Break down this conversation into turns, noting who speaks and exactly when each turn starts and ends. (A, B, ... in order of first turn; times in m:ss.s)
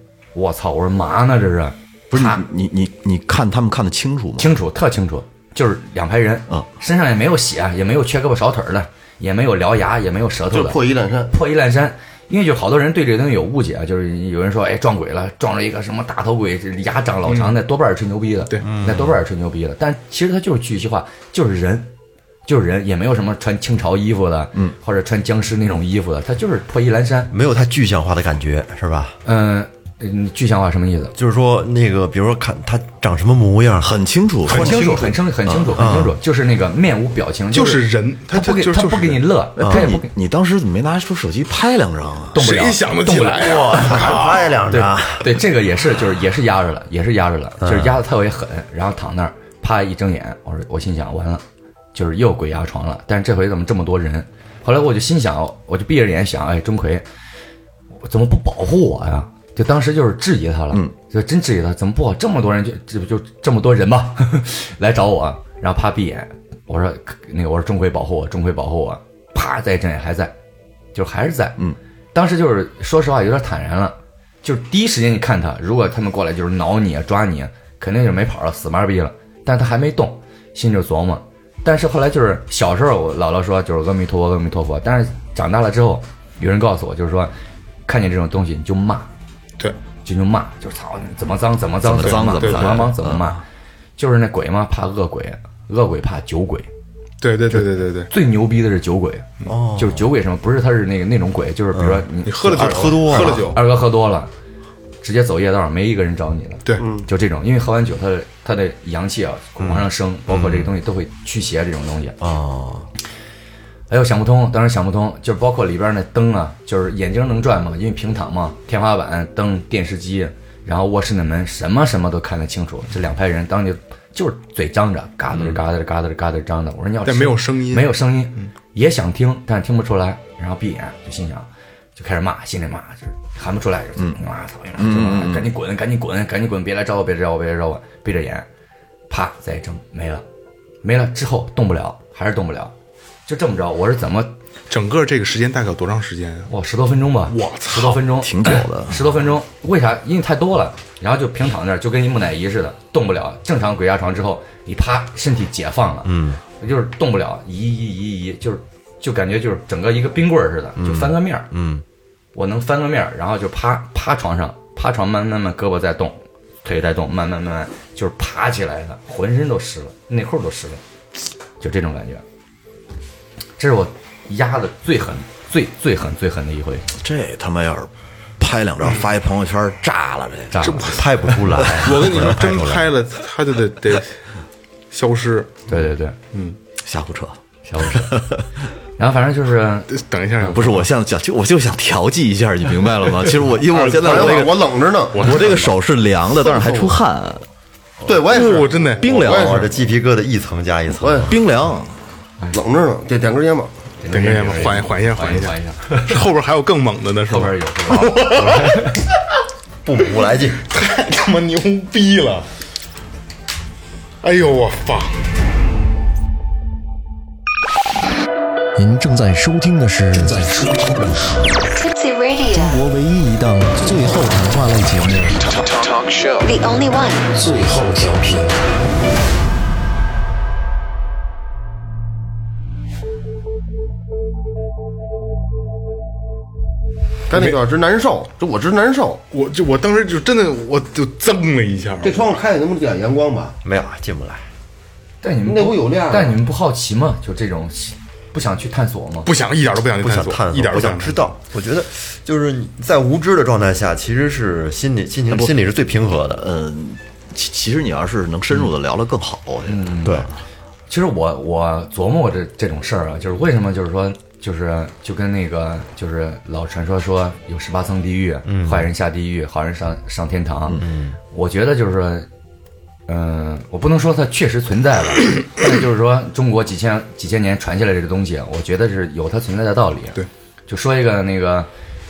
0:00.3-0:02.4 A
0:02.1-0:04.5 B
0:04.4-0:10.8 A
0:10.5-0:11.3 C
0:11.3-0:21.9 A
0:17.3-0:17.6 D
0:18.6-0:19.2 E
0:22.4-0:27.3 A
0:27.3-0:29.2 E
0:29.2-0:31.1 A
0:31.1-0:34.0 E
0:33.8-0:34.9 B
0:34.5-0:35.1 D
0:34.5-0:40.1 A
0:35.5-0:35.8 B
0:35.7-0:36.2 E
0:37.5-0:39.2 D
0:39.6-0:42.4 B
0:39.6-0:39.9 E
0:42.3-0:51.4 A
0:42.4-0:44.5 D
0:43.4-0:45.3 E
0:47.6-0:48.0 E
0:51.9-0:57.0 A
0:58.0-1:10.3 A
1:10.9-1:11.6 A
1:12.1-1:27.3 A
1:27.8-1:29.1 A
1:30.0-1:33.4 A
1:31.8-1:33.4 B
1:32.0-1:32.9 D
1:34.0-1:36.7 A
1:37.2-1:38.1 D
1:37.5-1:44.3 A
1:39.4-1:40.1 E
1:41.7-1:43.6 E
1:42.2-1:43.6 D
1:45.0-1:52.2 A
1:49.6-1:50.7 E
1:52.2-1:52.9 E
1:53.9-2:18.4 A
2:05.3-2:05.6 B
2:07.0-2:08.5 D
2:14.8-2:15.5 B
2:19.1-2:20.2 A
2:20.8-2:22.7 A
2:23.3-2:24.3 A
2:24.7-2:26.5 D
2:26.5-2:41.5 A
2:27.3-2:28.0 D
2:28.2-2:29.1 B
2:36.0-2:36.4 E
2:40.8-2:41.8 E
2:42.3-2:50.8 A
2:51.6-2:52.2 A
2:53.6-2:56.8 A
2:57.0-3:00.8 B
3:00.5-3:01.0 A
3:00.6-3:04.2 D
3:00.9-3:02.9 E
3:01.6-3:01.9 B
3:04.9-3:05.6 D
3:05.7-3:06.2 A
3:06.3-3:06.6 D
3:06.8-3:08.4 B
3:07.7-3:08.3 A
3:09.0-3:10.6 A
3:09.9-3:10.9 D
3:10.5-3:17.4 B
3:13.7-3:14.6 D
3:14.0-3:15.3 C
3:15.1-3:15.8 D
3:16.4-3:16.9 C
3:18.0-3:19.6 C
3:18.3-3:19.3 D
3:18.7-3:19.6 B
3:19.2-3:21.3 E
3:21.0-3:21.3 C
3:21.3-3:21.9 B
3:22.5-3:23.7 C
3:24.0-3:26.2 A
3:24.1-3:28.8 D
3:27.3-3:28.8 A
3:28.3-3:28.8 E
3:29.8-3:30.6 E
3:30.7-3:32.5 D
3:34.2-3:35.2 D
3:38.8-3:41.4 F
3:41.7-3:42.8 G
3:42.5-3:45.6 F
3:46.1-3:47.3 G
3:47.3-3:48.6 F
3:57.3-3:59.2 C
3:59.3-4:02.4 D
4:02.0-4:03.5 C
4:03.6-4:04.4 E
4:05.2-4:09.3 A
4:05.4-4:06.4 C
4:09.2-4:11.3 D
4:10.0-4:16.4 E
4:15.3-4:15.6 B
4:16.4-4:20.3 B
4:19.6-4:20.3 A
4:20.9-4:30.8 A
4:28.4-4:28.9 E
4:30.7-4:31.2 E
4:31.3-4:32.3 A
4:33.1-4:41.7 A